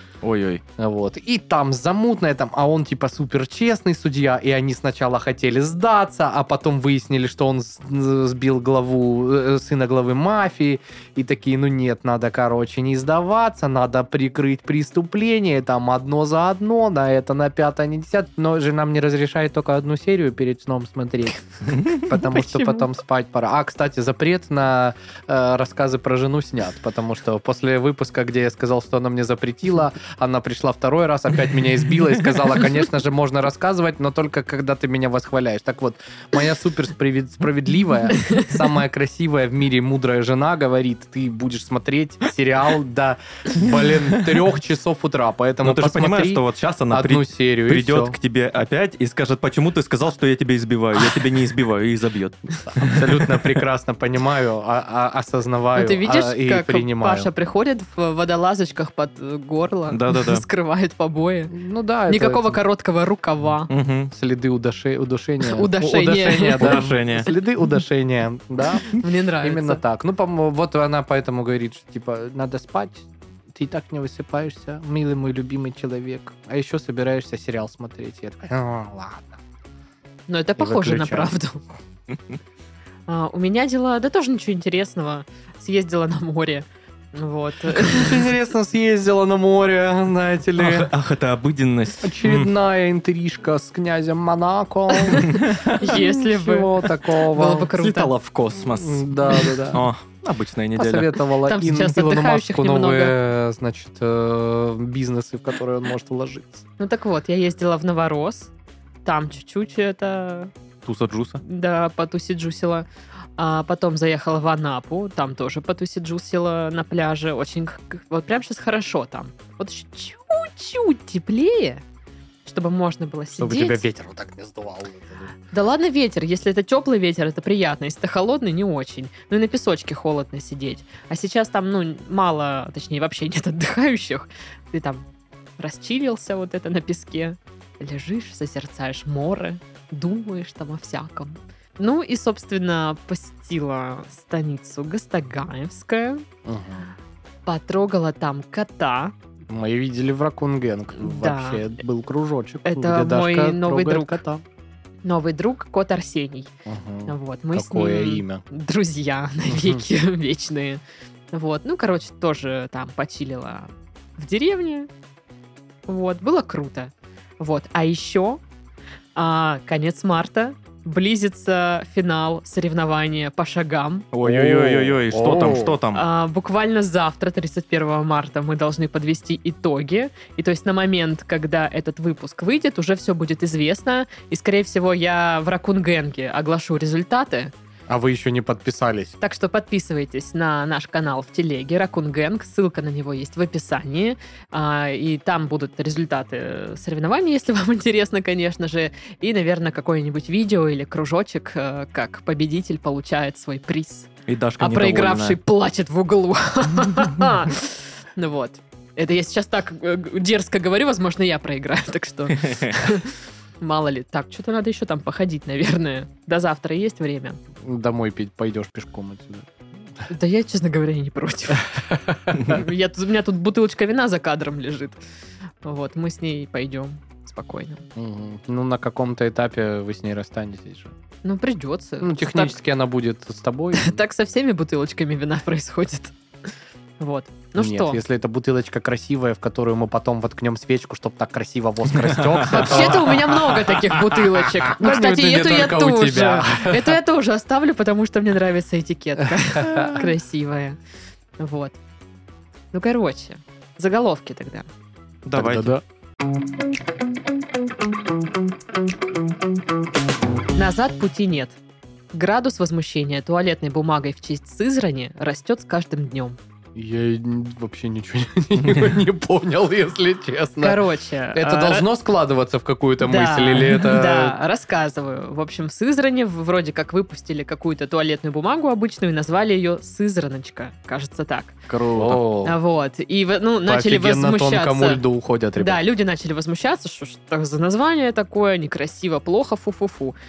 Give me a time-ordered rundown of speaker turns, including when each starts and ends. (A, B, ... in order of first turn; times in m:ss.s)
0:00.2-0:00.6 A
0:00.8-0:48.2 B
0:45.6-0:53.6 A
0:52.7-0:57.3 B
0:55.8-1:01.5 C
0:59.9-1:00.4 A
1:01.5-1:02.6 B
1:02.1-1:03.7 C
1:03.7-1:04.1 A
1:04.1-1:19.4 B
1:05.4-1:07.4 C
1:06.4-1:07.3 A
1:08.9-1:09.8 C
1:20.3-1:21.6 C
1:20.6-1:21.4 B
1:23.1-1:28.3 C
1:27.8-1:30.9 B
1:30.6-1:32.5 A
1:32.0-1:37.7 B
1:35.0-1:38.1 C
1:35.2-1:35.8 A
1:37.8-1:41.2 A
1:38.7-1:39.9 B
1:40.8-1:46.6 B
1:41.4-1:43.2 C
1:46.8-1:48.5 C
1:49.0-1:50.5 C
1:50.8-1:51.4 A
1:51.4-1:52.9 C
1:53.4-2:01.8 C
2:02.4-2:03.8 C
2:03.4-2:05.3 B
2:05.5-2:15.1 C
2:15.6-2:26.3 C
2:26.4-2:26.9 B
2:27.5-2:29.1 C
2:29.5-2:34.4 B
2:31.0-2:31.6 C
2:32.7-2:34.2 C
2:35.0-2:36.5 C
2:36.7-2:38.4 B
2:37.1-2:44.9 C
2:39.5-2:39.8 B
2:45.9-2:48.4 C
2:49.2-2:54.1 C
2:54.1-2:56.0 A
2:54.2-2:55.8 B
2:55.9-3:07.5 C
3:07.9-3:09.2 B
3:09.2-3:37.4 C
3:24.3-3:25.4 A
3:32.4-3:32.9 A
3:37.6-3:39.5 B
3:40.1-3:45.0 C
3:45.6-3:47.9 C
3:48.0-3:50.9 B
3:51.2-3:52.6 C
3:52.0-3:54.0 B
3:53.7-3:56.2 C
3:57.0-3:58.0 C
3:57.6-4:04.0 B
4:02.0-4:02.9 A
4:02.5-4:10.8 C
4:04.6-4:07.0 B
4:11.4-4:11.8 C
4:12.7-4:14.7 C
4:15.2-4:15.7 A
4:15.3-4:15.8 B
4:20.6-4:21.6 C
4:22.1-4:26.4 C
4:26.8-4:30.8 B
4:30.6-4:31.9 C
4:31.3-4:34.4 B
4:33.0-4:41.6 C
4:41.7-4:42.2 A
4:41.9-4:42.6 B
4:42.4-4:45.0 C
4:43.7-4:45.8 B
4:45.6-4:50.2 C